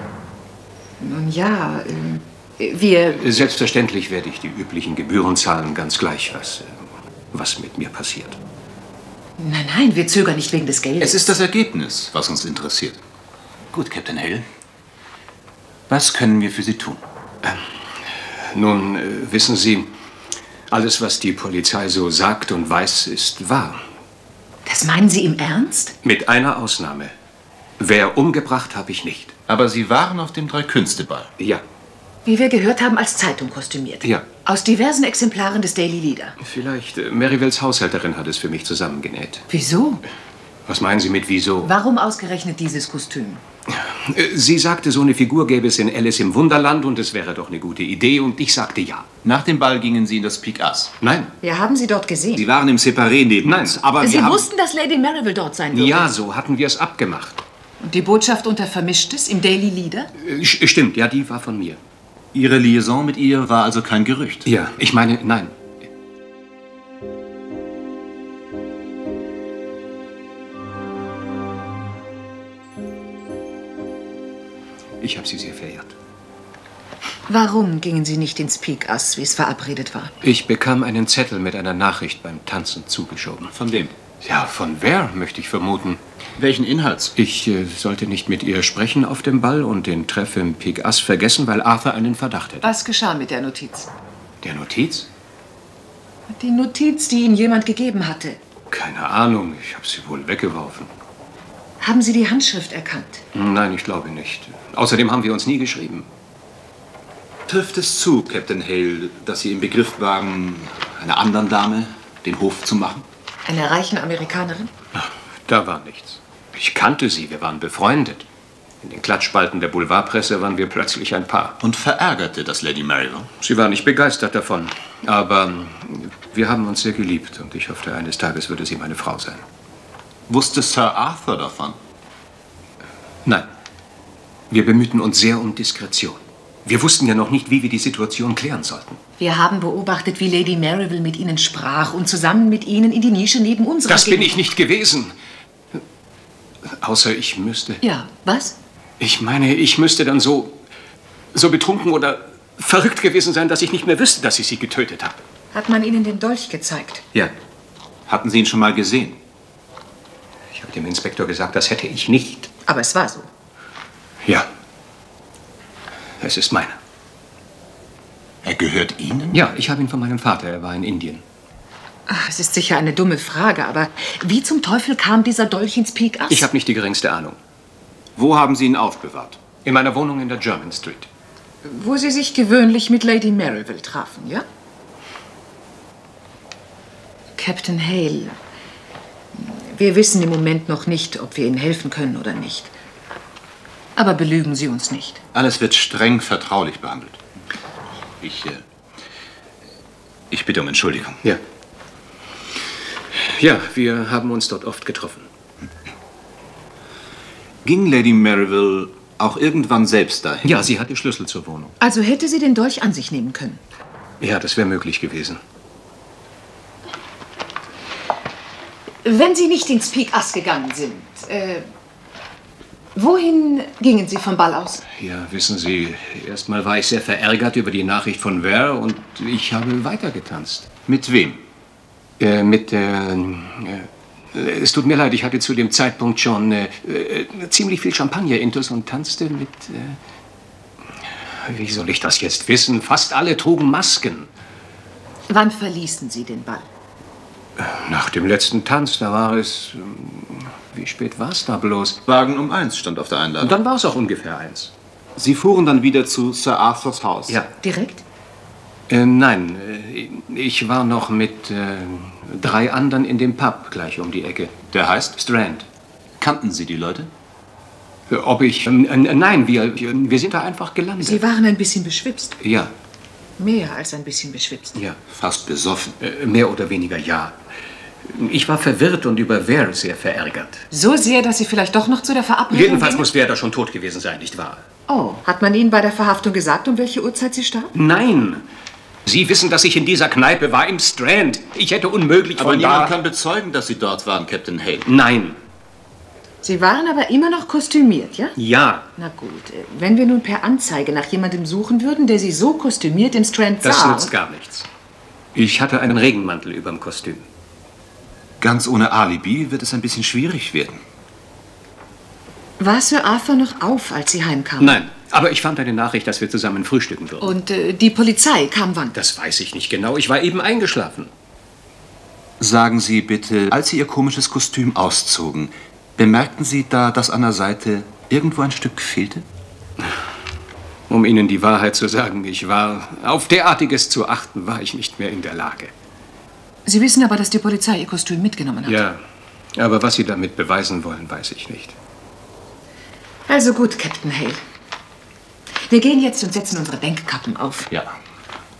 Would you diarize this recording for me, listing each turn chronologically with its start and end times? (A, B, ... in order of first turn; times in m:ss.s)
0:01.0-0:03.2 A
0:03.1-0:08.4 B
0:09.4-0:11.3 A
0:11.0-0:13.0 C
0:13.7-0:14.4 C
0:15.9-0:17.0 C
0:17.4-0:19.9 B
0:20.7-0:23.8 B
0:24.6-0:25.9 A
0:26.0-0:27.1 B
0:27.8-0:29.3 B
0:29.5-0:31.3 C
0:32.2-0:36.4 A
0:36.4-0:39.4 B
0:39.5-0:40.0 A
0:40.6-0:41.7 B
0:41.6-0:43.4 A
0:43.7-0:49.1 B
0:49.2-0:50.9 C
0:51.0-0:51.3 B
0:51.4-0:52.4 A
0:52.3-0:54.2 C
0:53.4-0:54.4 B
0:54.0-0:56.1 A
0:55.7-0:57.4 B
0:57.8-1:00.1 A
1:00.2-1:01.8 B
1:02.3-1:04.5 C
1:04.4-1:05.6 B
1:15.0-1:15.9 B
1:17.3-1:20.1 A
1:20.2-1:23.5 B
1:23.5-1:23.9 C
1:24.2-1:26.0 B
1:26.4-1:27.1 C
1:27.2-1:32.7 B
1:32.6-1:33.9 A
1:34.4-1:35.1 B
1:36.3-1:38.4 A
1:38.7-1:40.9 B
1:41.8-1:43.2 A
1:43.3-1:46.1 B
1:47.5-1:53.0 C
1:53.4-1:54.7 A
1:55.0-1:58.2 B
1:58.8-2:01.6 B
2:01.6-2:03.3 C
2:03.4-2:09.4 B
2:10.3-2:11.8 C
2:13.2-2:13.5 B
2:14.5-2:19.0 B
2:19.2-2:24.4 A
2:23.9-2:25.1 B
2:26.6-2:27.8 B
2:27.8-2:28.6 A
2:29.0-2:30.6 B
2:31.3-2:35.2 B
2:35.5-2:37.0 A
2:38.1-2:39.2 C
2:40.5-2:42.5 B
2:42.6-2:43.3 A
2:44.2-2:44.5 B
2:46.2-2:46.8 B
2:48.4-2:49.4 C
2:49.3-2:51.2 B
2:52.1-2:56.5 A
2:56.3-2:57.4 B
2:58.2-2:59.4 C
2:59.6-3:01.1 B
3:01.6-3:04.4 A
3:07.4-3:08.3 A
3:09.3-3:12.7 A
3:14.0-3:15.2 A
3:15.3-3:17.2 C
3:18.2-3:18.6 C
3:20.3-3:21.2 C
3:23.1-3:25.3 B
3:27.6-3:30.6 C
3:30.4-3:31.7 B
3:31.8-3:33.6 A
3:34.2-3:35.4 B
3:39.0-3:41.7 A
3:42.9-3:44.8 A
3:44.9-3:50.7 B
3:50.9-3:51.4 C
3:52.2-4:00.0 B
4:01.4-4:04.3 B
4:05.3-4:06.7 A
4:07.6-4:12.0 B
4:12.0-4:13.6 C
4:13.4-4:14.7 B
4:15.2-4:17.4 C
4:17.6-4:18.0 A
4:18.9-4:24.6 B
4:24.7-4:25.2 C
4:25.1-4:25.6 B
4:26.2-4:27.1 C
4:28.1-4:31.2 B
4:31.0-4:32.4 A
4:32.4-4:32.7 B
4:33.4-4:34.8 A
4:34.7-4:35.0 B
4:35.1-4:36.0 C
4:36.0-4:37.4 B
4:38.0-4:40.6 B
4:40.7-4:43.1 A
4:42.5-4:44.6 B
4:44.9-4:47.7 A
4:47.7-4:48.5 B
4:49.0-4:53.0 B
4:52.4-4:54.9 C
4:54.8-4:55.4 B
4:56.4-4:58.3 A
4:58.4-4:58.8 B
4:58.9-5:04.1 A
5:03.6-5:04.7 B
5:05.3-5:07.3 B
5:08.4-5:10.8 C
5:12.6-5:14.8 A
5:14.6-5:17.3 B
5:17.2-5:19.0 A
5:18.9-5:21.1 B
5:22.4-5:29.2 C
5:30.9-5:35.7 B
5:36.6-5:38.8 A
5:38.6-5:39.0 B
5:39.5-5:41.8 B
5:43.3-5:44.4 A
5:45.6-5:47.7 A
5:47.7-5:48.0 C